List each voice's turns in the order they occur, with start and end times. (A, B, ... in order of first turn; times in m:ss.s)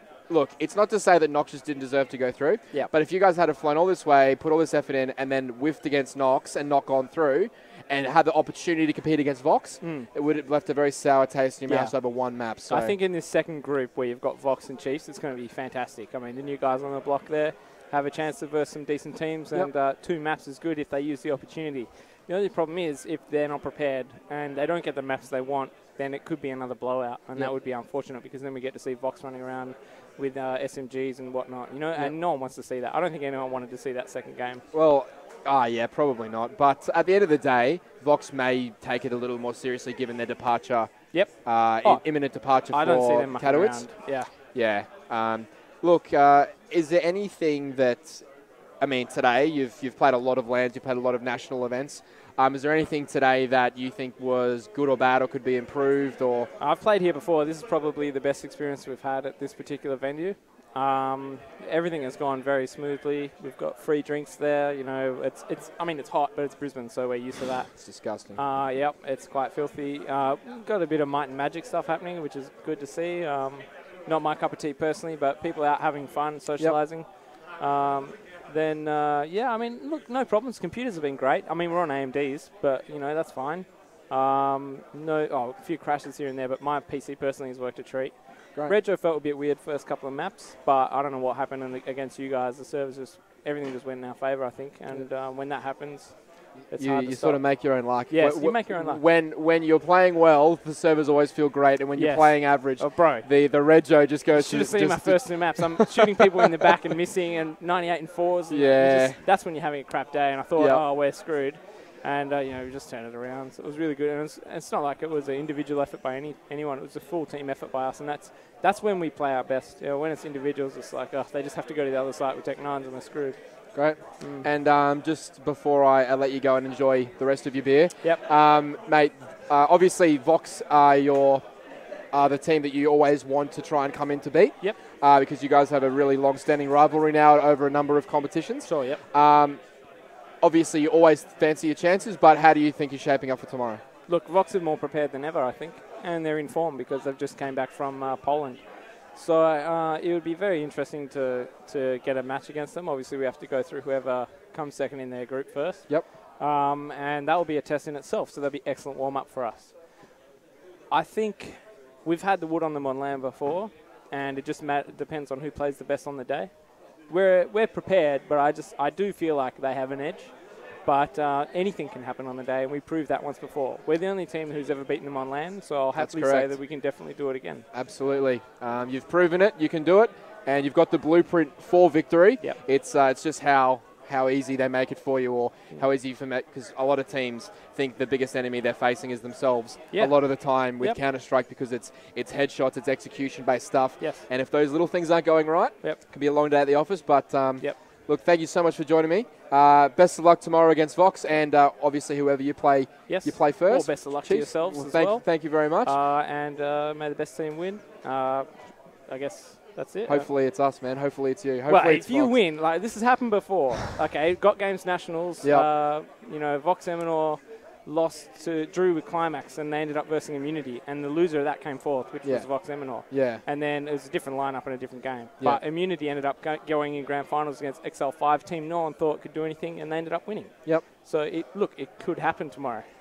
0:00.2-0:13.0 A
0:09.8-0:10.1 B
0:11.6-0:34.6 B
0:34.7-0:56.5 A
0:41.1-0:44.3 B
0:56.6-1:39.0 B
1:07.8-1:08.4 A
1:28.5-1:28.8 A
1:36.7-1:46.0 A
1:41.9-1:43.5 B
1:44.3-2:04.5 B
1:48.5-1:49.2 A
1:50.6-1:50.8 A
2:03.7-2:11.4 A
2:12.1-2:19.8 A
2:18.6-2:19.0 B
2:20.4-2:23.8 A
2:24.1-2:40.1 B
2:40.9-2:57.6 B
2:55.9-2:56.6 A
2:57.7-3:25.9 A
3:09.9-3:11.0 B
3:14.0-3:14.3 B
3:23.1-3:30.3 B
3:30.0-3:32.4 A
3:31.6-3:52.9 B
3:35.4-3:35.7 A
3:42.2-3:43.4 A